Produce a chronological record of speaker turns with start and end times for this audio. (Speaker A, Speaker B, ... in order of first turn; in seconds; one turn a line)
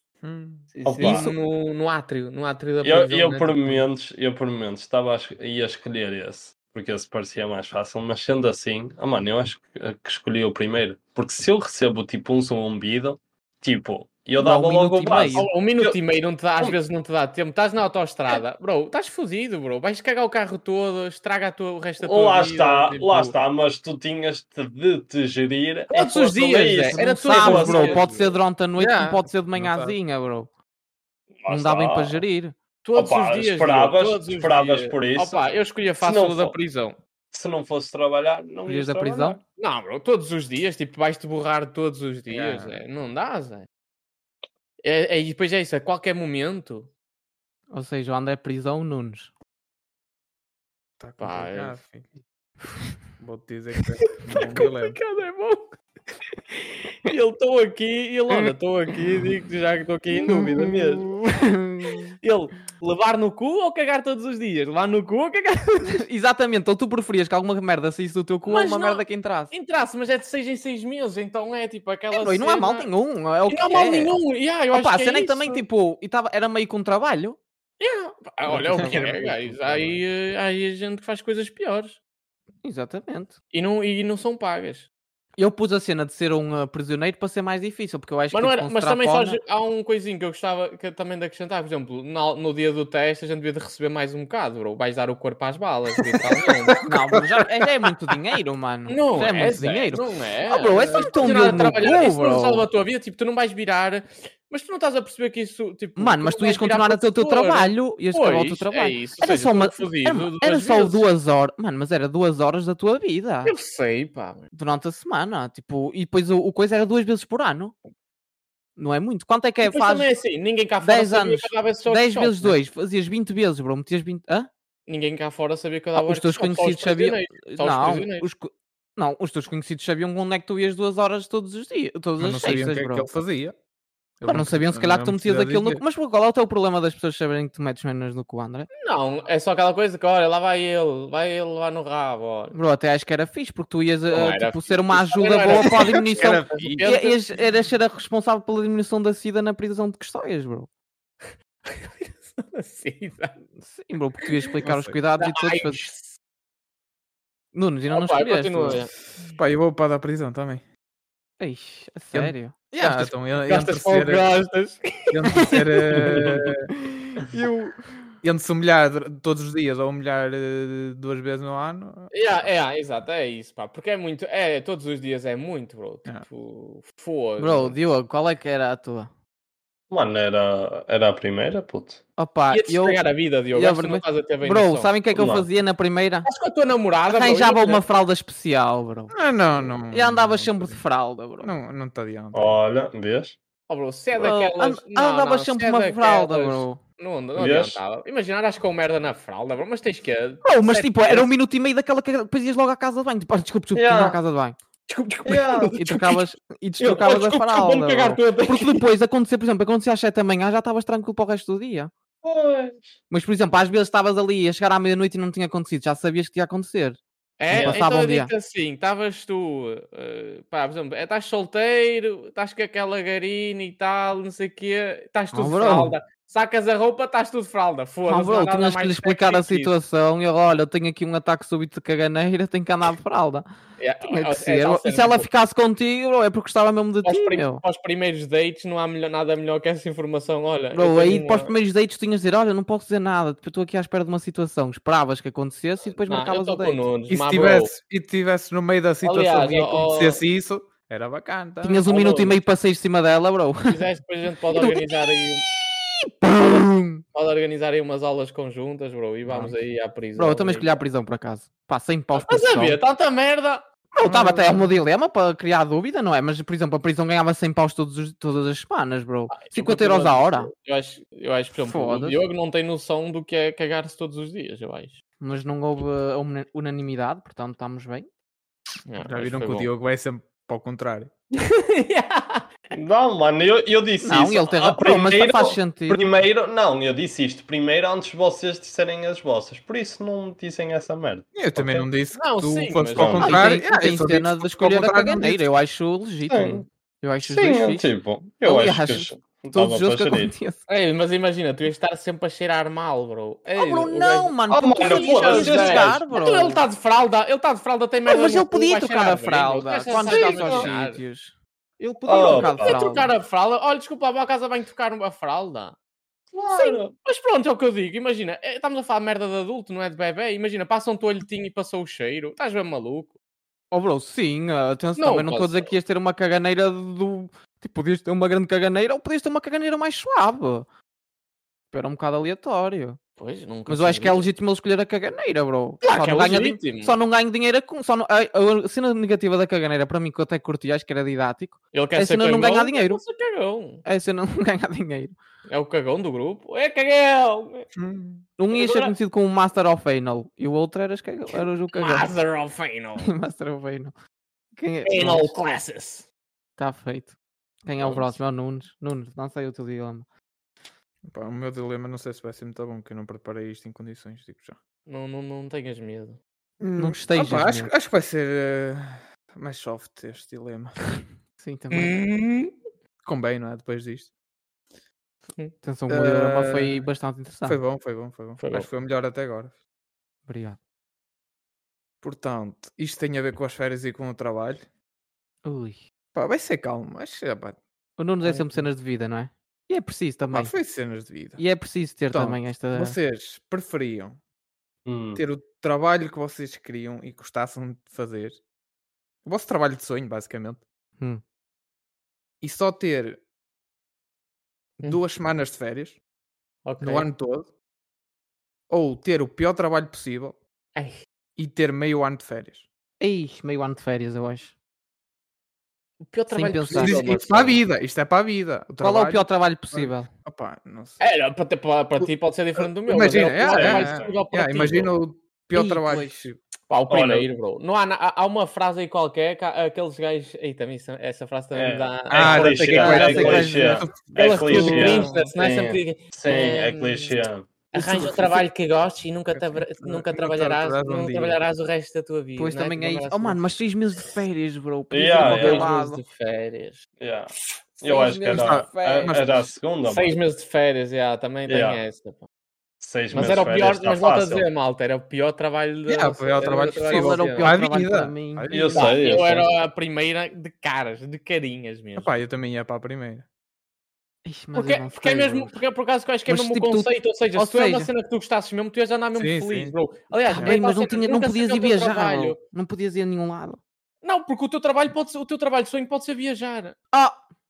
Speaker A: 0.2-0.7
Speaker B: 0.7-3.8
Speaker C: 0.8-1.2
Speaker D: 1.0-1.4
Speaker C: 2.8-15.9
Speaker D: 14.4-15.5
Speaker B: 15.3-23.4
Speaker C: 22.0-28.1
Speaker B: 25.9-28.3
Speaker D: 26.9-30.5
Speaker A: 28.8-30.0
Speaker C: 31.4-32.2
Speaker D: 31.5-32.5
Speaker B: 32.8-37.0
Speaker C: 32.9-35.4
Speaker C: 36.0-36.5
Speaker C: 37.3-39.4
Speaker D: 38.6-39.4
Speaker B: 39.6-43.7
Speaker A: 42.4-42.7
Speaker B: 44.8-46.9
Speaker D: 47.7-49.3
Speaker A: 51.0-52.1
Speaker B: 51.2-51.8
Speaker A: 53.2-55.0
Speaker B: 54.3-55.8
Speaker B: 57.0-60.8
Speaker C: 60.2-61.1
Speaker D: 60.3-62.1
Speaker B: 62.2-66.0
Speaker D: 65.9-69.5
Speaker B: 68.5-72.9
Speaker D: 72.1-74.2
Speaker B: 73.5-75.6
Speaker D: 74.7-77.4
Speaker B: 77.8-82.0
Speaker A: 78.5-80.0
Speaker D: 78.8-79.0
Speaker D: 82.6-83.3
Speaker B: 83.5-84.9
Speaker D: 85.4-89.4
Speaker B: 88.3-96.8
Speaker A: 96.0-97.9
Speaker D: 96.8-102.6
Speaker B: 98.9-111.0
Speaker A: 101.1-101.8
Speaker D: 106.0-113.5
Speaker B: 113.4-114.4
Speaker D: 114.5-117.7
Speaker D: 118.8-120.1
Speaker B: 119.6-122.6
Speaker D: 120.8-124.5
Speaker B: 124.9-128.3
Speaker D: 126.0-133.1
Speaker A: 132.2-133.5
Speaker A: 134.2-135.8
Speaker D: 134.3-138.7
Speaker B: 138.7-142.5
Speaker D: 142.5-150.7
Speaker B: 144.1-147.3
Speaker A: 146.1-146.9
Speaker B: 151.6-153.4
Speaker D: 153.6-155.8
Speaker A: 154.6-154.9
Speaker B: 155.2-156.2
Speaker D: 157.5-158.8
Speaker B: 157.9-158.9
Speaker A: 159.4-160.6
Speaker D: 161.4-163.1
Speaker A: 162.1-164.3
Speaker B: 163.4-165.2
Speaker A: 165.1-166.7
Speaker D: 165.4-166.2
Speaker D: 167.0-167.8
Speaker A: 168.2-172.1
Speaker B: 172.1-177.8
Speaker D: 177.4-179.1
Speaker C: 179.9-182.0
Speaker D: 182.2-186.3
Speaker B: 182.5-184.9
Speaker C: 185.1-185.4
Speaker B: 186.2-187.8
Speaker D: 187.1-191.5
Speaker A: 189.1-190.8
Speaker A: 191.4-192.6
Speaker C: 192.3-193.4
Speaker B: 193.7-201.3
Speaker D: 194.2-196.8
Speaker C: 197.3-197.8
Speaker D: 200.4-204.6
Speaker C: 203.8-204.2
Speaker B: 204.9-206.2
Speaker C: 205.2-205.8
Speaker D: 205.7-211.9
Speaker C: 206.8-207.9
Speaker B: 206.9-208.8
Speaker C: 212.2-212.9
Speaker D: 213.1-218.3
Speaker B: 217.4-229.7
Speaker D: 225.3-225.9
Speaker D: 228.1-233.4
Speaker B: 233.8-235.3
Speaker D: 234.0-237.6
Speaker B: 237.0-241.5
Speaker D: 240.7-246.9
Speaker B: 246.1-247.7
Speaker A: 247.1-251.8
Speaker B: 249.0-250.2
Speaker D: 251.6-253.8
Speaker B: 251.9-252.3
Speaker B: 253.7-255.5
Speaker D: 255.6-257.0
Speaker B: 256.3-260.8
Speaker D: 260.1-262.8
Speaker B: 262.1-263.6
Speaker D: 263.9-270.5
Speaker A: 264.1-264.3
Speaker B: 269.3-275.0
Speaker D: 271.6-272.2
Speaker D: 275.2-278.1
Speaker B: 278.9-279.7
Speaker A: 279.0-281.1
Speaker B: 281.4-282.4
Speaker C: 282.7-291.9
Speaker D: 284.0-286.1
Speaker A: 291.3-295.5
Speaker B: 292.1-293.3
Speaker C: 292.9-293.3
Speaker D: 293.2-297.9
Speaker C: 296.3-296.7
Speaker C: 297.2-300.3
Speaker D: 298.4-300.6
Speaker B: 300.7-311.0
Speaker D: 303.5-306.6
Speaker C: 304.5-306.0
Speaker D: 308.1-313.1
Speaker C: 310.0-310.7
Speaker C: 312.1-312.8
Speaker B: 312.2-315.8
Speaker C: 316.3-316.9
Speaker B: 316.5-323.1
Speaker D: 323.7-330.7
Speaker B: 325.0-325.7
Speaker D: 331.7-333.0
Speaker B: 333.2-334.3
Speaker D: 333.7-343.0
Speaker B: 335.8-337.0
Speaker B: 341.7-343.8
Speaker D: 343.8-345.1
Speaker B: 345.5-347.7
Speaker A: 347.7-348.3
Speaker D: 348.4-352.1
Speaker B: 348.5-348.9
Speaker B: 351.3-353.1
Speaker D: 353.0-353.9
Speaker D: 354.6-355.3
Speaker B: 354.8-356.1
Speaker D: 356.6-360.1
Speaker B: 357.8-358.1
Speaker A: 361.1-364.6
Speaker B: 364.9-366.2
Speaker A: 366.6-370.8
Speaker D: 366.8-367.7
Speaker D: 371.4-371.9
Speaker B: 371.7-372.5
Speaker A: 373.0-374.1
Speaker D: 375.6-377.6
Speaker A: 375.9-376.9
Speaker A: 377.4-379.5
Speaker B: 378.4-378.7
Speaker D: 380.2-380.6
Speaker A: 382.0-384.7
Speaker D: 385.4-385.8
Speaker A: 386.1-387.6
Speaker D: 388.0-390.5
Speaker A: 390.3-391.4
Speaker D: 391.4-393.0
Speaker A: 392.1-394.2
Speaker C: 394.8-395.2
Speaker A: 395.1-398.4
Speaker A: 399.2-400.6
Speaker A: 402.4-403.2
Speaker A: 404.8-406.0
Speaker B: 406.6-407.1
Speaker A: 406.8-407.5
Speaker A: 408.7-410.4
Speaker A: 411.4-412.7
Speaker D: 413.0-414.5
Speaker B: 416.0-417.6
Speaker D: 416.3-417.0
Speaker A: 416.7-421.0
Speaker D: 418.8-420.1
Speaker B: 421.0-424.9
Speaker A: 422.0-426.4
Speaker C: 423.4-424.2
Speaker D: 425.5-426.3
Speaker B: 426.7-433.4
Speaker C: 426.9-427.3
Speaker C: 431.5-437.6
Speaker A: 432.1-435.3
Speaker D: 432.7-434.9
Speaker B: 434.2-437.2
Speaker B: 437.7-443.4
Speaker A: 437.8-438.2
Speaker D: 437.8-438.3
Speaker A: 439.3-441.4
Speaker D: 442.4-446.0
Speaker C: 444.9-445.7
Speaker B: 445.2-446.8
Speaker C: 447.0-450.1
Speaker D: 447.8-449.2
Speaker A: 448.3-449.5
Speaker B: 449.9-452.2
Speaker C: 451.5-451.8
Speaker C: 452.8-454.4
Speaker B: 453.1-457.5
Speaker A: 455.9-459.2
Speaker D: 456.8-458.5
Speaker C: 458.5-459.5
Speaker B: 458.7-462.1
Speaker A: 461.9-463.2
Speaker D: 464.2-465.5
Speaker B: 464.5-472.4
Speaker D: 466.3-467.9
Speaker A: 469.1-469.7
Speaker D: 470.2-473.6
Speaker B: 474.0-476.8
Speaker D: 476.9-477.2